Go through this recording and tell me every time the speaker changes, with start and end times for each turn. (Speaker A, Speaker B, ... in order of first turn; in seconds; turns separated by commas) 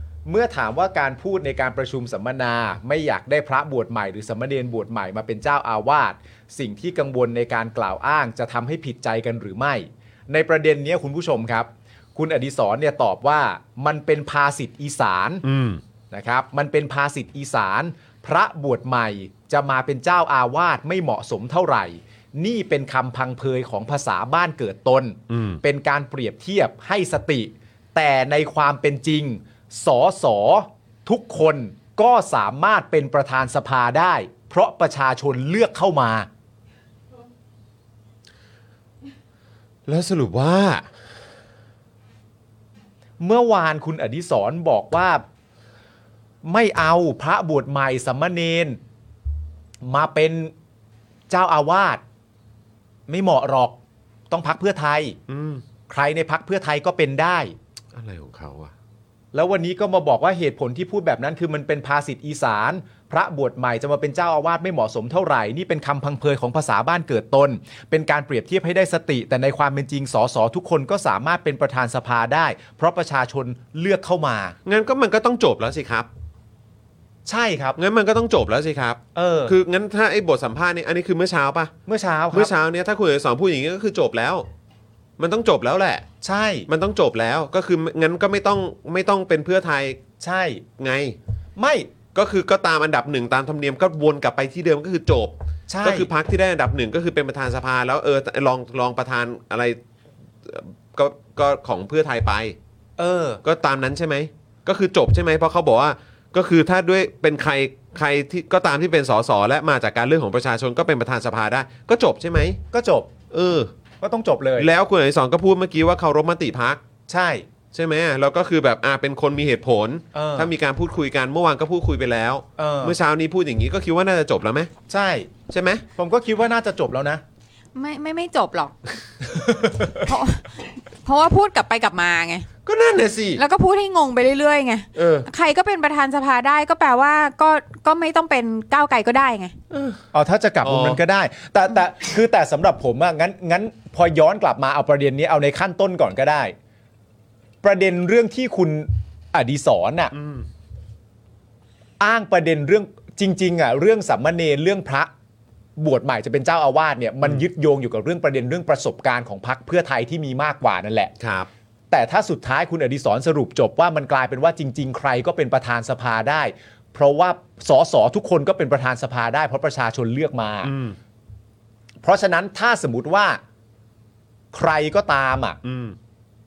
Speaker A: 0.2-15.4, Speaker B: 15.4-15.8, Speaker A: 16.1-36.3, Speaker B: 25.3-25.6, Speaker B: 39.9-40.9, Speaker A: 43.2-45.2, Speaker A: 46.4-48.8, Speaker A: 49.8-50.5, Speaker A: 51.3-52.0, Speaker A: 53.1-53.8, Speaker A: 54.3-55.2, Speaker B: 55.3-55.6, Speaker A: 55.9-57.5, Speaker B: 57.9-58.7, Speaker A: 59.3-74.5, Speaker B: 74.7-76.1, Speaker A: 77.2-77.8, Speaker B: 77.8-81.7, Speaker A: 79.1-79.5, Speaker A: 81.9-82.5, Speaker B: 82.3-84.5, Speaker B: 85.2-86.0, Speaker A: 86.2-86.7, Speaker B: 86.7-90.0, Speaker A: 90.2-90.6, Speaker B: 90.8-91.2, Speaker A: 91.6-91.9, Speaker B: 92.1-99.8, Speaker A: 95.7-96.1, Speaker B: 100.5-102.5, Speaker A: 103.0-103.4, Speaker B: 103.4-112.6, Speaker A: 112.7-113.1, Speaker B: 113.3-113.7, Speaker A: 114.0-114.7, Speaker B: 114.6-116.8, Speaker A: 117.1-117.5, Speaker B: 117.7-124.7, Speaker A: 120.1-120.5, Speaker A: 122.6-123.0, Speaker A: 124.9-125.3, Speaker B: 125.5-125.8, Speaker A: 125.9-127.2, Speaker C: 127.7-128.8, Speaker A: 129.2-130.0, Speaker C: 130.0-132.5, Speaker B: 132.7-133.4, Speaker C: 133.3-139.6, Speaker B: 134.9-135.3, Speaker B: 139.7-140.0, Speaker A: 140.1-146.5, Speaker B: 140.6-141.0, Speaker A: 147.6-150.1, Speaker B: 150.1-150.4, Speaker A: 152.0-155.1, Speaker A: 155.8-161.1, Speaker B: 161.2-161.5, Speaker A: 161.9-170.7, Speaker B: 170.6-171.0, Speaker A: 172.0-173.4, Speaker A: 174.5-175.6, Speaker B: 175.6-175.9